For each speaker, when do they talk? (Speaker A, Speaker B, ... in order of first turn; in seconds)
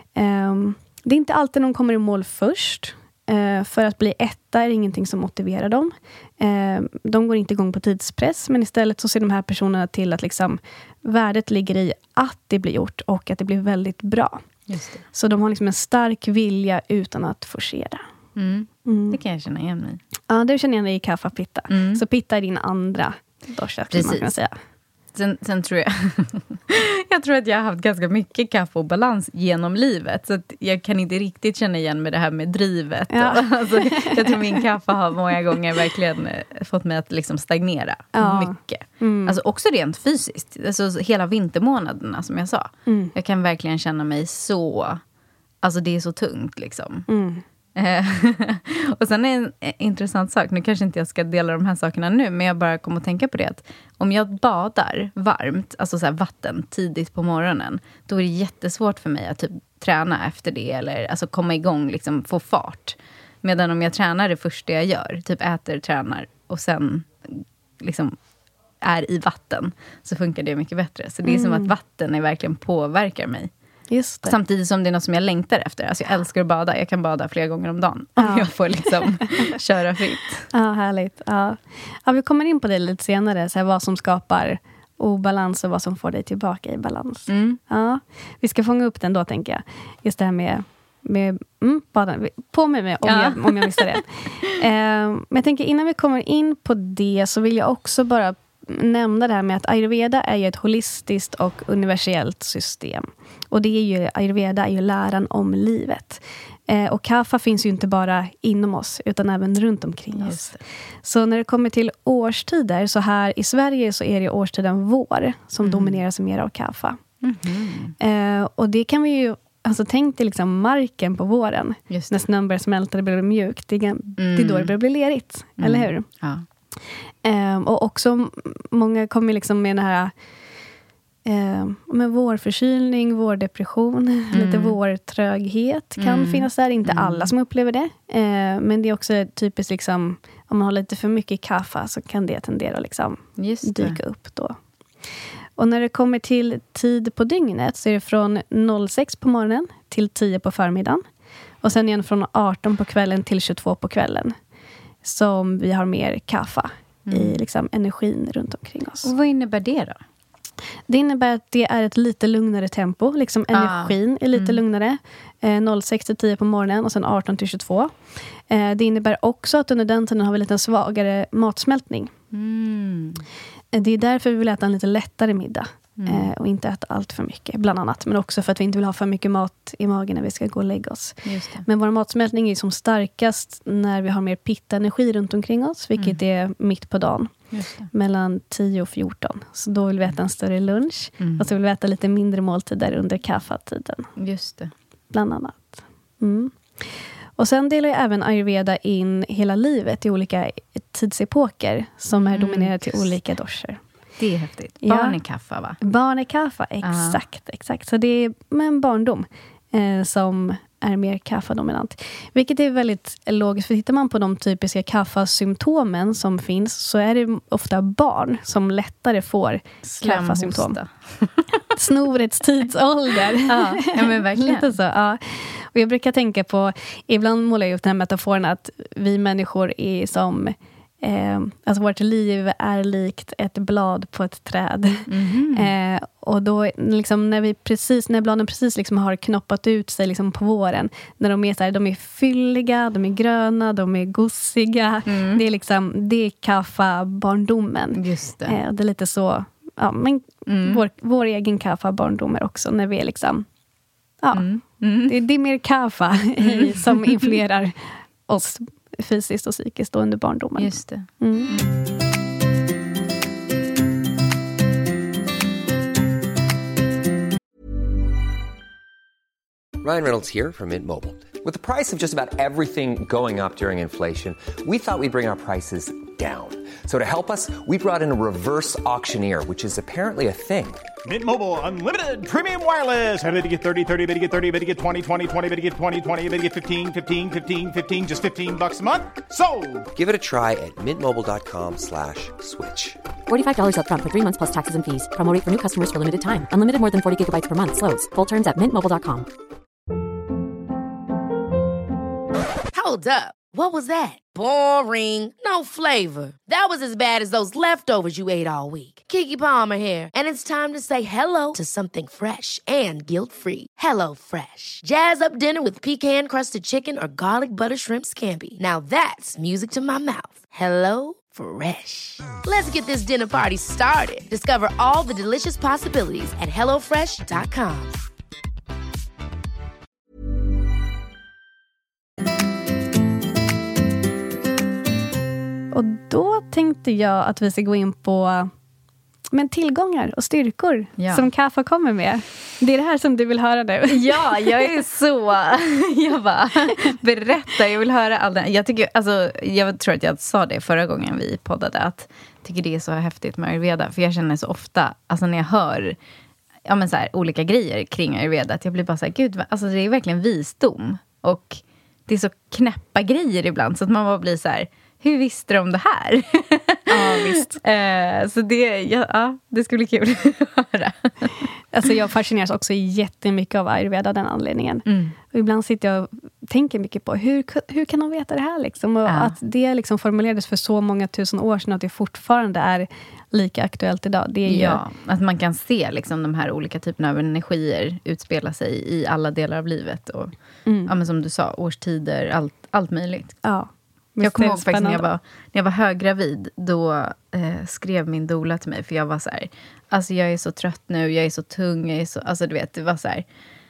Speaker A: 0.2-14.4, 15.1-18.1, 18.9-19.2, 20.3-24.5, 33.1-34.6, 38.2-39.4, 42.9-43.1, 47.1-47.4, 71.2-71.7, 73.9-74.4, 78.2-78.9, 80.5-117.0, 118.0-126.1, 127.2-130.1, 131.2-144.6, 145.6-151.0, 151.6-154.3, 155.0-159.1, 160.9-172.1, 173.7-194.1, 195.1-203.8, 204.8-205.2, 205.8-220.8, 221.8-253.5, 254.2-254.5, 255.1-261.5, 335.7-338.5, 339.3-344.7, 366.9-367.6, 371.7-384.8, 390.7-390.9, 393.4-395.1
Speaker B: 14.7-15.0, 18.4-20.0, 21.7-22.0, 23.9-24.3, 25.1-45.0, 45.6-47.1, 47.8-68.2, 68.8-73.5, 74.2-80.5, 87.3-87.6, 93.0-94.0, 110.1-110.6, 115.6-116.0, 117.2-118.0, 121.9-122.3, 124.2-124.8, 125.6-126.5, 134.3-134.8, 136.0-137.3, 143.4-144.0, 157.1-157.4, 159.0-160.0, 163.5-164.6, 172.3-173.2, 176.0-176.3, 181.2-181.7, 187.5-187.9, 191.2-191.4, 194.2-194.7, 202.1-203.0, 204.2-205.8, 206.8-207.2, 219.8-221.5, 223.5-224.7, 235.1-235.7, 245.1-245.4, 248.0-248.6, 250.5-250.8, 254.3-255.2, 256.4-257.4, 260.6-261.7, 341.0-341.3, 343.9-356.0, 356.6-371.4, 374.9-375.2, 379.1-379.4, 384.5-390.3, 390.9-393.4, 394.2-403.2
Speaker C: 269.8-280.9, 289.9-293.0
Speaker D: 281.1-289.9
Speaker E: 293.3-299.3
Speaker F: 302.7-327.9